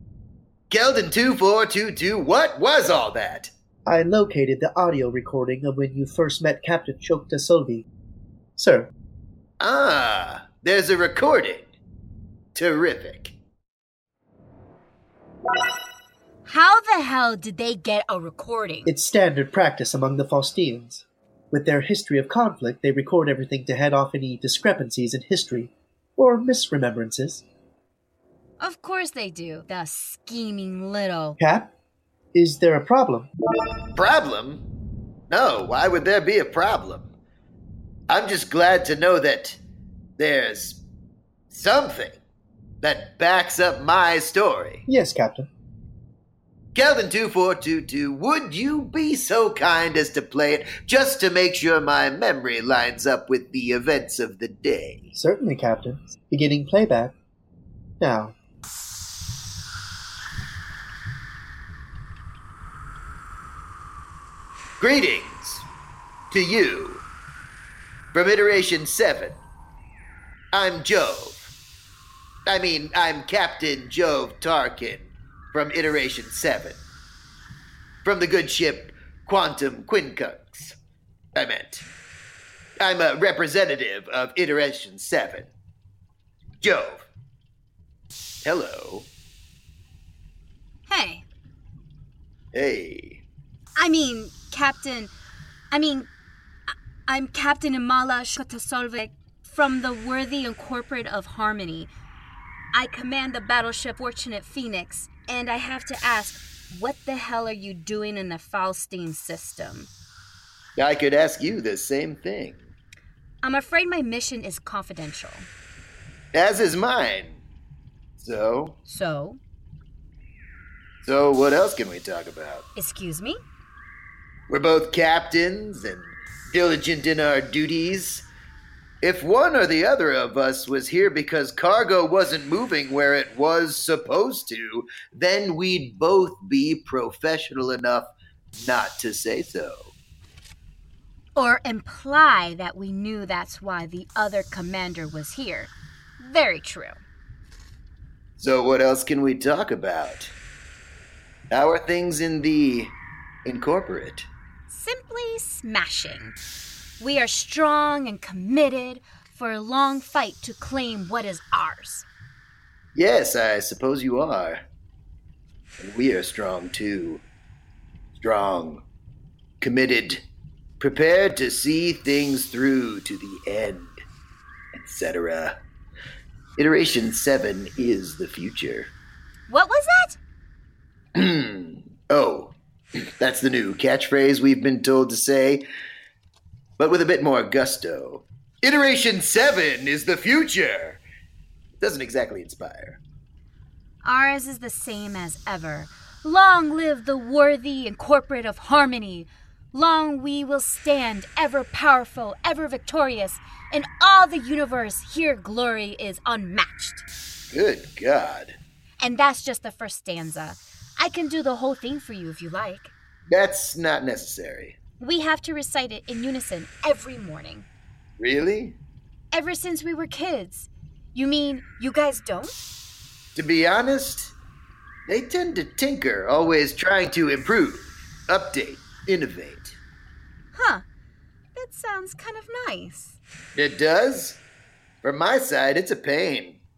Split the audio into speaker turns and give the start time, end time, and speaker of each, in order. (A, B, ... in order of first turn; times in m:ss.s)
0:00.7-0:03.5 A
0:03.8-0:07.8 B
0:08.6-0:08.9 B
0:09.6-0:11.7 A
0:12.5-0:13.4 A
0:16.4-0:18.9 C
0:18.8-0:27.4 B
0:28.6-0:31.4 C
0:31.4-0:31.7 B
0:32.3-0:33.3 B
0:34.0-0:34.6 A
0:35.3-0:37.1 A
0:38.1-0:39.6 A
0:40.2-0:40.8 A
0:41.5-0:42.2 A
0:42.8-0:44.8 A
0:44.9-0:45.5 B
0:46.7-0:55.1 A
0:55.1-0:57.1 B
0:58.0-0:58.3 B
1:04.8-1:05.7 A
1:06.3-1:07.0 A
1:08.1-1:09.4 A
1:10.5-1:11.5 A
1:12.4-1:16.8 A
1:18.0-1:20.8 A
1:21.3-1:21.8 A
1:22.8-1:25.5 A
1:26.6-1:27.1 A
1:28.4-1:29.1 A
1:30.9-1:31.2 C
1:32.5-1:33.2 A
1:33.8-1:35.1 C
1:35.7-1:36.1 C
1:36.7-1:41.9 C
1:42.7-1:49.9 C
1:50.8-1:52.7 A
1:53.4-1:55.5 C
1:56.3-1:57.4 A
1:58.2-1:58.8 A
1:58.8-1:59.4 C
2:01.0-2:02.7 A
2:02.8-2:03.4 C
2:04.5-2:08.3 A
2:09.0-2:19.9 A
2:21.3-2:27.0 C
2:28.4-2:30.3 A
2:31.5-2:34.3 A
2:34.7-2:36.4 C
2:37.0-2:42.1 C
2:42.9-2:44.6 A
2:45.8-2:47.2 A
2:48.2-2:48.8 A
2:49.6-2:50.2 A
2:50.8-2:54.0 A
2:54.7-2:55.6 A
2:56.6-2:58.9 A
2:59.5-3:00.2 C
3:01.1-3:05.6 A
3:06.8-3:11.0 A
3:11.8-3:13.0 A
3:14.0-3:27.0 C
3:27.5-3:28.6 A
3:29.0-3:32.9 C
3:33.3-3:34.8 A
3:35.0-3:37.7 C
3:38.2-3:38.8 A
3:39.3-3:42.7 C
3:43.3-3:44.4 A
3:45.1-3:49.8 A
3:50.5-3:50.8 C
3:51.5-3:53.2 C
3:53.5-3:54.4 A
3:55.0-3:56.6 A